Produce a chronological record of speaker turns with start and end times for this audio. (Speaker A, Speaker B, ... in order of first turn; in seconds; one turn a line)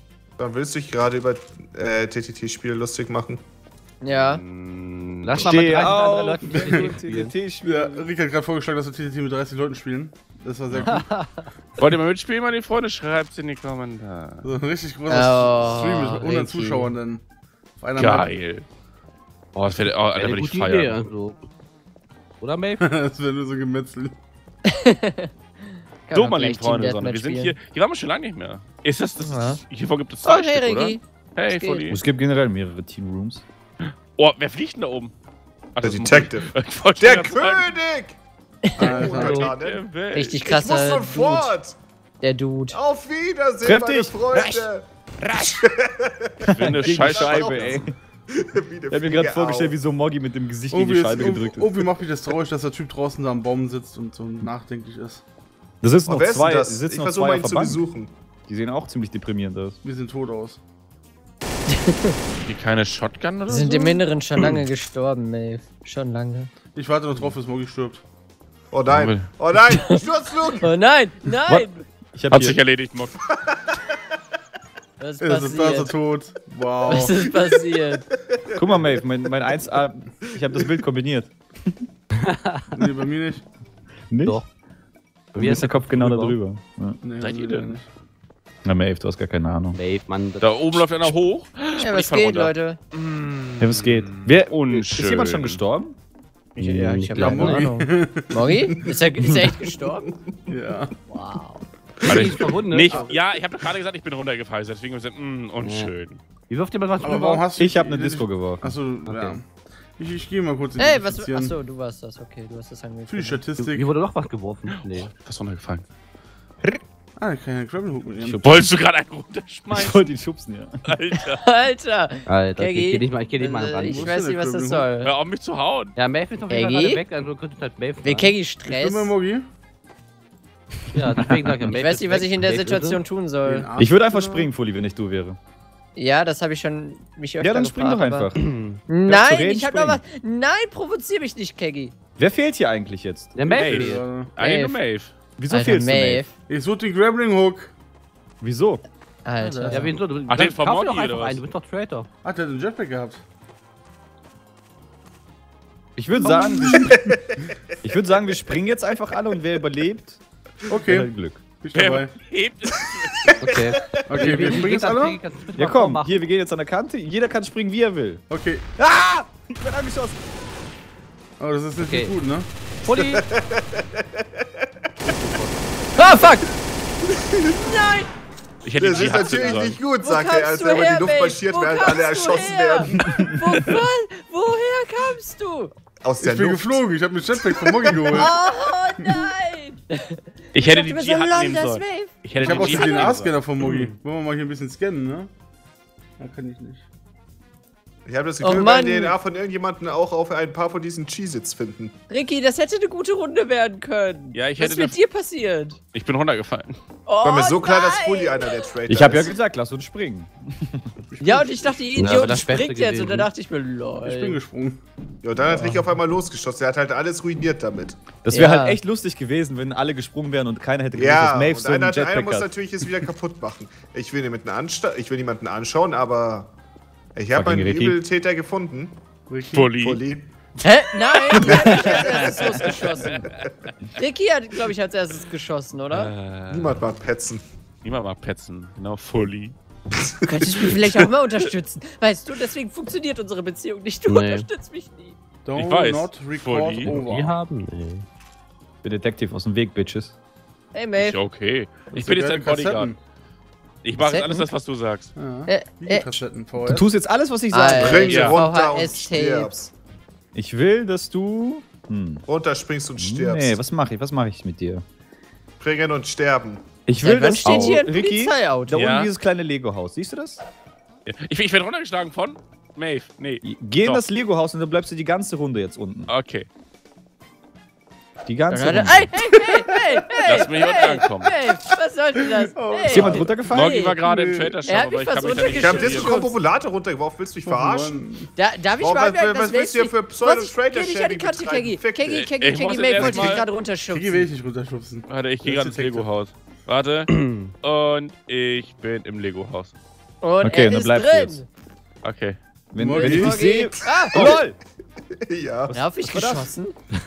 Speaker A: 0.4-3.4
Speaker B: 4.0-4.4
Speaker C: 4.1-6.0
Speaker D: 5.2-7.3
Speaker E: 5.4-8.1
Speaker F: 6.4-7.0
Speaker F: 7.6-11.1
Speaker D: 10.9-11.4
Speaker C: 11.8-14.5
Speaker F: 14.4-17.2
Speaker B: 15.1-16.9
Speaker F: 17.8-18.3
Speaker C: 18.0-18.7
Speaker C: 19.6-21.0
Speaker D: 20.2-21.4
Speaker D: 22.4-22.8
Speaker F: 22.8-24.2
Speaker B: 24.7-25.3
Speaker B: 26.1-27.6
Speaker C: 26.1-32.0
Speaker B: 29.2-29.6
Speaker B: 30.2-31.8
Speaker E: 31.9-33.5
Speaker C: 33.8-35.1
Speaker C: 35.8-37.7
Speaker A: 35.8-38.2
Speaker B: 38.6-39.5
Speaker A: 38.8-41.8
Speaker F: 38.8-39.5
Speaker C: 39.1-40.3
Speaker B: 40.1-41.5
Speaker B: 42.2-42.8
Speaker A: 42.7-49.8
Speaker E: 43.6-44.2
Speaker C: 44.3-44.7
Speaker C: 45.2-45.6
Speaker C: 46.5-47.8
Speaker E: 46.5-48.0
Speaker E: 48.9-51.7
Speaker F: 50.7-55.2
Speaker E: 55.8-57.8
Speaker A: 56.1-58.1
Speaker E: 58.5-59.8
Speaker F: 59.8-60.6
Speaker B: 61.7-62.2
Speaker C: 62.5-64.5
Speaker B: 63.5-66.5
Speaker F: 66.8-68.0
Speaker A: 68.7-70.7
Speaker C: 68.9-69.3
Speaker B: 69.7-71.8
Speaker E: 71.5-72.6
Speaker C: 72.3-73.2
Speaker B: 75.0-75.9
Speaker F: 75.2-77.2
Speaker B: 76.9-78.1
Speaker A: 78.3-79.0
Speaker E: 78.6-81.8
Speaker D: 82.2-82.8
Speaker F: 82.7-83.5
Speaker E: 84.1-84.4
Speaker D: 85.3-86.4
Speaker E: 85.3-87.0
Speaker F: 87.0-87.9
Speaker C: 87.2-87.8
Speaker E: 88.7-89.8
Speaker D: 89.8-90.8
Speaker C: 90.4-95.6
Speaker B: 91.8-92.8
Speaker E: 93.6-96.0
Speaker D: 96.6-97.6
Speaker B: 96.6-100.1
Speaker F: 97.1-98.4
Speaker F: 100.5-100.9
Speaker B: 101.1-101.6
Speaker D: 102.0-103.2
Speaker C: 102.0-106.2
Speaker D: 105.6-105.9
Speaker D: 106.5-107.5
Speaker F: 107.0-109.5
Speaker E: 107.6-108.7
Speaker D: 109.0-109.4
Speaker F: 110.0-111.5
Speaker B: 110.8-113.4
Speaker F: 113.1-113.9
Speaker D: 113.6-115.1
Speaker C: 114.7-115.8
Speaker F: 117.2-118.5
Speaker E: 118.2-118.7
Speaker C: 118.4-120.1
Speaker E: 119.7-121.0
Speaker C: 120.9-121.4
Speaker B: 121.4-125.1
Speaker D: 122.3-124.2
Speaker F: 123.8-124.9
Speaker C: 125.0-126.0
Speaker D: 126.0-128.3
Speaker B: 126.5-127.0
Speaker B: 128.0-129.1
Speaker F: 128.7-129.5
Speaker D: 130.9-133.0
Speaker E: 131.2-131.6
Speaker B: 131.7-133.7
Speaker F: 133.4-134.5
Speaker E: 133.8-135.4
Speaker B: 136.0-138.3
Speaker E: 137.4-140.0
Speaker D: 138.4-138.8
Speaker B: 138.9-141.9
Speaker E: 142.2-143.4
Speaker D: 143.3-144.1
Speaker F: 143.5-144.3
Speaker C: 143.5-145.1
Speaker B: 144.4-144.8
Speaker E: 145.4-146.2
Speaker B: 145.5-146.3
Speaker F: 146.5-147.7
Speaker E: 148.4-148.8
Speaker B: 149.2-149.9
Speaker F: 149.4-150.0
Speaker D: 149.7-152.1
Speaker C: 150.3-151.4
Speaker F: 152.2-153.2
Speaker E: 156.0-157.2
Speaker D: 156.3-156.9
Speaker F: 156.3-156.9
Speaker A: 156.9-157.5
Speaker E: 157.8-160.2
Speaker F: 160.7-162.1
Speaker E: 160.9-161.4
Speaker C: 161.7-163.9
Speaker A: 163.3-164.2
Speaker D: 163.4-166.2
Speaker F: 164.1-165.2
Speaker E: 165.6-168.2
Speaker F: 168.3-168.7
Speaker E: 168.8-170.2
Speaker F: 171.4-172.5
Speaker D: 171.8-172.1
Speaker D: 172.8-173.3
Speaker A: 172.9-175.4
Speaker D: 175.0-175.7
Speaker B: 175.9-176.5
Speaker A: 177.1-177.7
Speaker B: 177.5-178.1
Speaker C: 178.7-179.8
Speaker A: 178.8-183.3
Speaker B: 179.0-185.7
Speaker A: 186.0-186.8
Speaker F: 186.2-188.4
Speaker A: 187.4-188.3
Speaker B: 188.1-193.1
Speaker F: 189.0-189.2
Speaker C: 190.5-193.9
Speaker F: 192.4-195.3
Speaker F: 196.2-196.8
Speaker A: 198.1-202.0
Speaker B: 198.4-199.2
Speaker B: 202.1-205.8
Speaker C: 204.3-205.0
Speaker C: 205.9-206.8
Speaker B: 207.1-208.7
Speaker A: 207.2-209.3
Speaker E: 208.9-210.9
Speaker F: 211.1-211.9
Speaker B: 211.2-214.4
Speaker D: 212.0-213.3
Speaker F: 214.0-214.8
Speaker A: 215.2-218.0
Speaker E: 218.2-222.5
Speaker B: 218.3-218.8
Speaker A: 221.0-226.5
Speaker A: 227.2-229.0
Speaker E: 227.3-228.0
Speaker F: 229.3-229.7
Speaker C: 229.5-230.0
Speaker A: 229.8-230.3
Speaker B: 230.6-233.3
Speaker C: 231.3-233.3
Speaker A: 231.5-232.2
Speaker B: 233.9-236.1
Speaker C: 235.9-236.8
Speaker A: 236.5-237.4
Speaker C: 237.8-239.6
Speaker A: 240.1-240.7
Speaker B: 240.2-245.2
Speaker D: 244.1-244.5
Speaker F: 245.4-247.4
Speaker C: 245.6-246.9
Speaker D: 246.8-248.1
Speaker E: 248.8-250.2
Speaker B: 250.7-251.2
Speaker C: 251.0-252.9
Speaker F: 251.9-253.0
Speaker C: 253.8-255.1
Speaker B: 254.0-254.5
Speaker F: 255.2-256.9
Speaker B: 255.5-256.2
Speaker E: 256.6-258.2
Speaker B: 257.5-259.5
Speaker A: 257.8-259.7
Speaker C: 258.1-258.4
Speaker E: 260.3-262.2
Speaker A: 262.3-263.6
Speaker E: 263.0-264.9
Speaker A: 265.6-266.6
Speaker E: 266.9-270.4
Speaker B: 267.0-268.8
Speaker D: 267.4-267.8
Speaker C: 268.7-269.1
Speaker C: 271.1-274.0
Speaker E: 273.4-276.1
Speaker C: 276.1-276.5
Speaker E: 278.3-279.1
Speaker B: 278.5-284.0
Speaker F: 279.4-280.3
Speaker C: 280.2-281.3
Speaker F: 282.4-283.5
Speaker E: 282.9-283.8
Speaker C: 283.5-286.2
Speaker F: 284.0-284.6
Speaker B: 284.7-286.3
Speaker A: 285.4-288.0
Speaker F: 287.4-288.3
Speaker B: 288.4-294.3
Speaker A: 288.8-292.3
Speaker C: 292.1-293.5
Speaker A: 293.0-293.4
Speaker F: 293.9-296.1
Speaker C: 295.1-299.7
Speaker D: 297.1-297.5
Speaker B: 300.2-301.4
Speaker E: 300.4-301.4
Speaker C: 302.0-302.4
Speaker E: 302.7-304.6
Speaker F: 302.8-303.4
Speaker B: 302.9-304.4
Speaker A: 305.3-305.8
Speaker B: 305.7-306.8
Speaker E: 306.1-306.5